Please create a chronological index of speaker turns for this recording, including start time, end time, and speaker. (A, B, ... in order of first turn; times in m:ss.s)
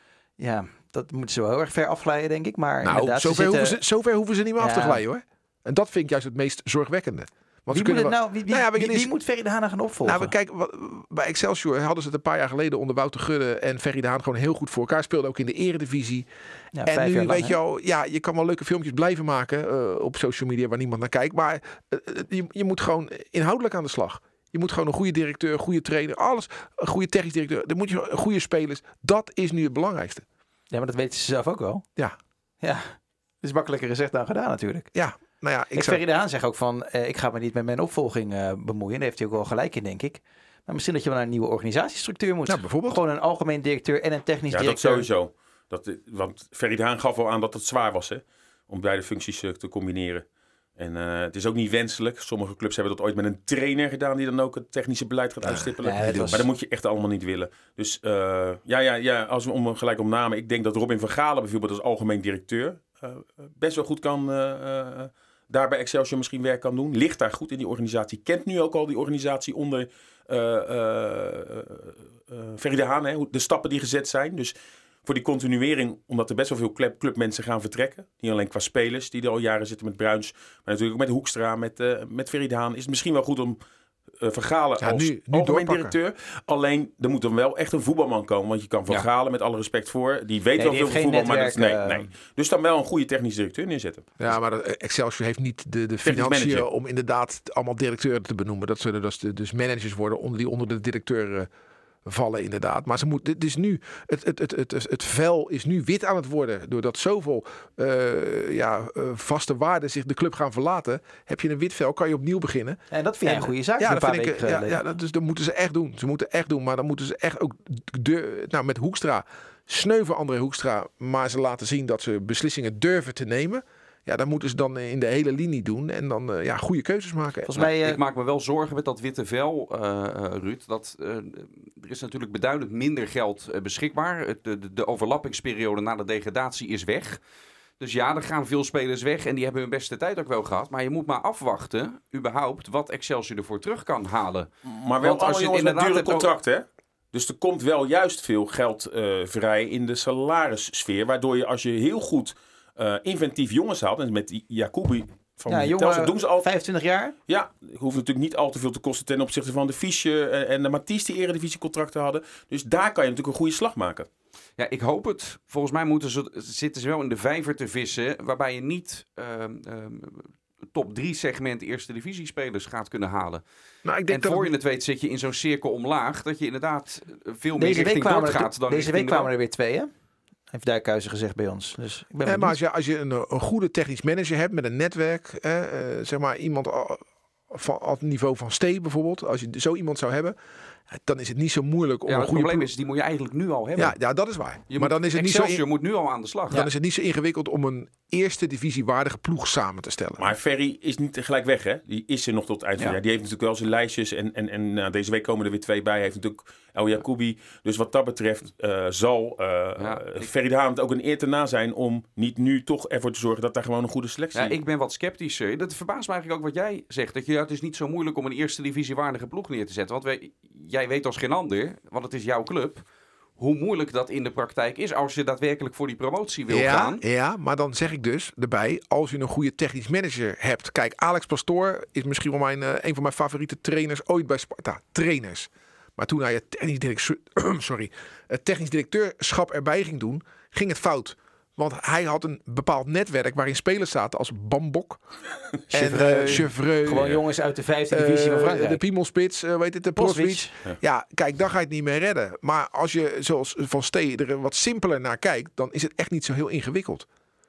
0:00.4-0:03.8 A
0:02.8-0:09.1 B
0:04.6-0:05.0 A
0:07.7-0:10.3 A
0:10.0-0:16.3 B
0:16.7-0:17.6 A
0:16.8-0:30.2 B
0:30.7-0:31.8 A
0:32.6-0:34.9 A
0:34.9-0:36.0 B
0:35.7-0:45.0 A
0:42.5-0:43.0 B
0:44.5-0:50.2 C
0:50.8-1:23.6 C
0:55.4-0:56.4 B
0:55.8-0:56.5 A
1:24.2-1:34.1 C
1:24.8-1:25.9 B
1:30.6-1:32.1 A
1:34.2-1:41.5 B
1:36.0-1:36.7 C
1:42.0-2:07.5 B
1:52.9-1:54.8 A
2:07.4-2:08.0 A
2:07.5-2:17.2 D
2:17.8-2:24.5 D
2:24.6-2:36.4 C
2:25.0-2:26.3 D
2:35.5-2:37.1 A
2:37.3-2:44.1 C
2:44.6-2:53.4 D
2:53.8-2:54.5 B
2:54.1-2:59.3 D
2:57.6-2:59.9 A
3:00.5-3:02.6 A
3:02.2-3:10.4 B
3:10.9-3:12.7 B
3:12.1-3:14.0 D
3:13.8-3:15.6 B
3:14.7-3:16.6 D
3:16.5-3:20.3 B
3:20.2-3:34.6 C
3:29.8-3:30.3 D
3:34.3-3:42.8 D
3:43.4-3:47.0 D
3:46.5-4:05.0 B
4:05.7-4:07.2 B
4:05.7-4:08.8 A
4:07.9-4:17.1 B
4:10.0-4:10.6 A